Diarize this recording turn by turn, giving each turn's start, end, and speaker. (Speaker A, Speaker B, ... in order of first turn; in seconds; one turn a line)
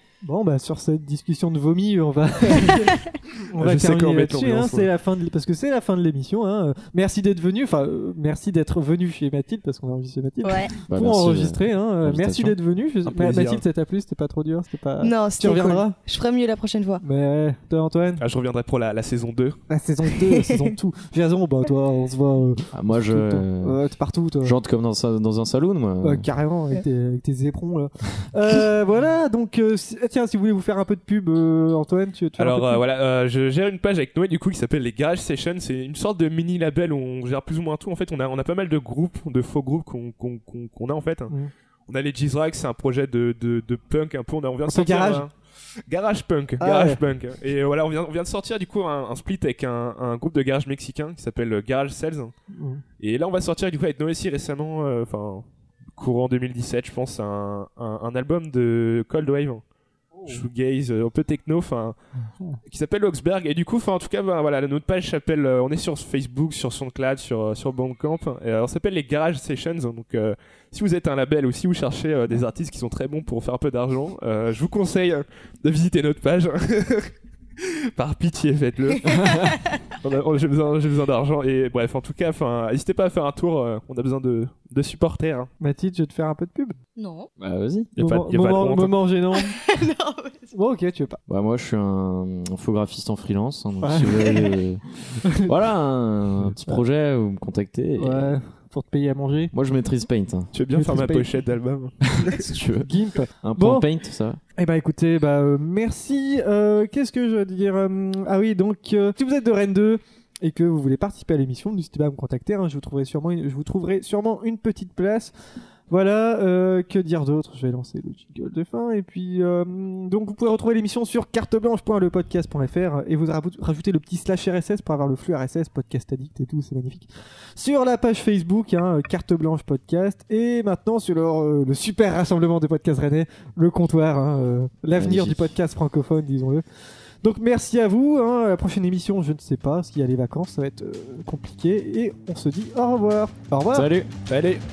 Speaker A: 0.2-15.9
Speaker B: 3.6-4.9
Speaker C: 10.4-10.7
Speaker D: 10.9-12.6
Speaker B: 13.1-13.6
Speaker C: 15.0-17.0
Speaker A: 17.0-18.2
Speaker B: 18.2-19.6
Speaker A: 19.7-24.6
Speaker C: 20.1-20.7
Speaker D: 22.7-23.8
Speaker D: 24.4-26.3
Speaker A: 26.0-32.8
Speaker B: 32.4-41.3
Speaker B: 41.9-45.3
Speaker A: 44.7-45.2
Speaker B: 45.9-52.3
Speaker A: 46.6-47.0
Speaker A: 52.5-52.8
Speaker B: 53.0-55.4
Speaker B: 56.0-59.6
Speaker B: 60.2-62.0
Speaker B: 62.7-79.4
Speaker C: 79.1-79.7
Speaker B: 80.0-85.5
Speaker A: 85.6-86.8
Speaker C: 87.0-87.3
Speaker D: 87.4-87.9
Speaker B: 88.0-89.0
Speaker A: 88.0-89.5
Speaker C: 89.3-90.5
Speaker A: 90.5-91.2
Speaker D: 91.3-98.4
Speaker A: 93.8-94.6
Speaker A: 95.2-95.5
Speaker A: 98.0-99.5
Speaker D: 99.5-100.5
Speaker B: 100.5-102.4
Speaker A: 100.7-101.3
Speaker D: 102.2-102.9
Speaker A: 102.8-103.8
Speaker D: 103.4-104.4
Speaker A: 104.5-115.3
Speaker A: 115.9-136.6
Speaker D: 134.9-135.5
Speaker A: 137.2-143.9
Speaker D: 143.7-144.1
Speaker B: 144.3-144.6